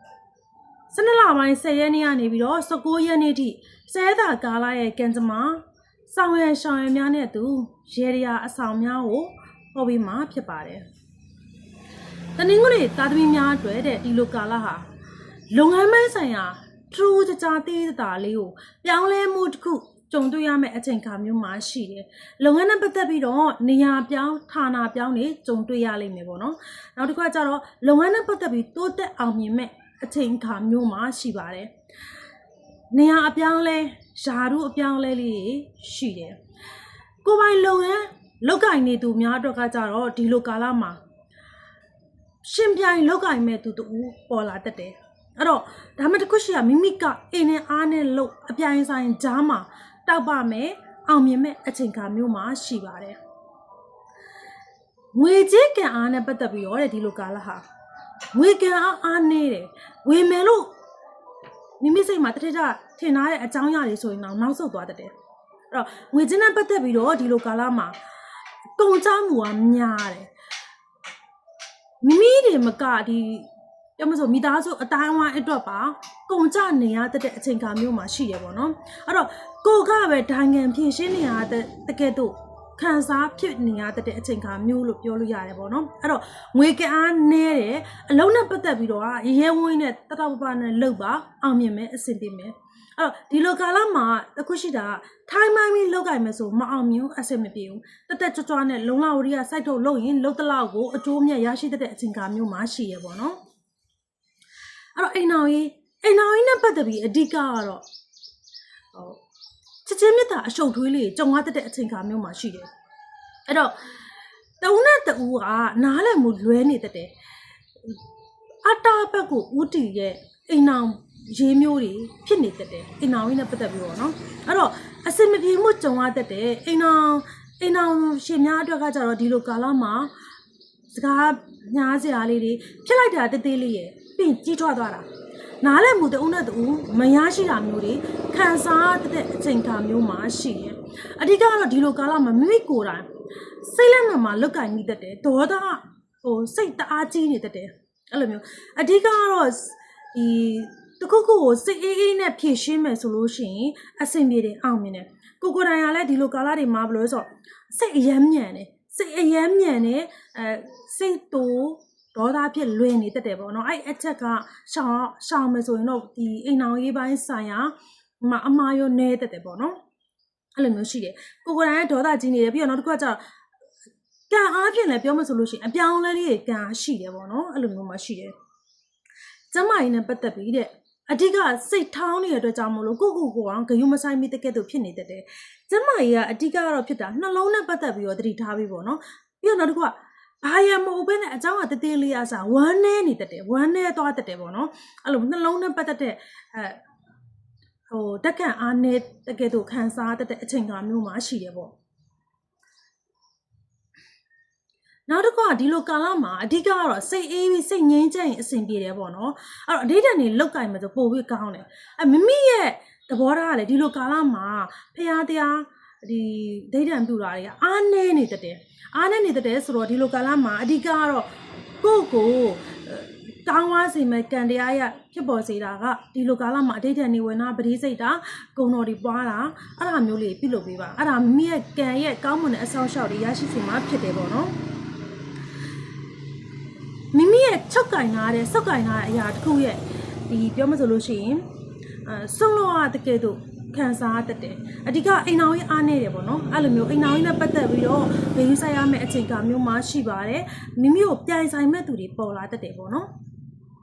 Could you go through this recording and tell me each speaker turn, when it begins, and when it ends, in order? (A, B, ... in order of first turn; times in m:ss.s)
0:00.9-0:10.8 A
0:12.4-0:14.9 A
0:15.5-0:31.7 A
0:32.9-0:36.4 A
0:37.2-0:41.0 A
0:42.4-0:53.2 A
0:55.1-0:57.6 A
0:58.3-1:00.7 A
1:01.8-1:05.1 A
1:05.7-1:08.0 A
1:08.8-1:10.3 A
1:12.0-1:43.4 A
1:44.9-1:47.8 A
1:48.9-1:49.2 A
1:49.8-1:52.7 A
1:53.5-1:53.8 A
1:54.6-1:57.1 A
1:58.6-2:10.1 A
2:10.9-2:15.1 A
2:15.6-2:49.8 A
2:50.6-2:53.2 A
2:54.3-2:58.3 A
2:59.5-3:16.8 A
3:17.9-3:21.7 A
3:25.1-3:41.3 A
3:41.8-3:54.5 A
3:57.1-4:01.5 A
4:02.0-4:13.1 A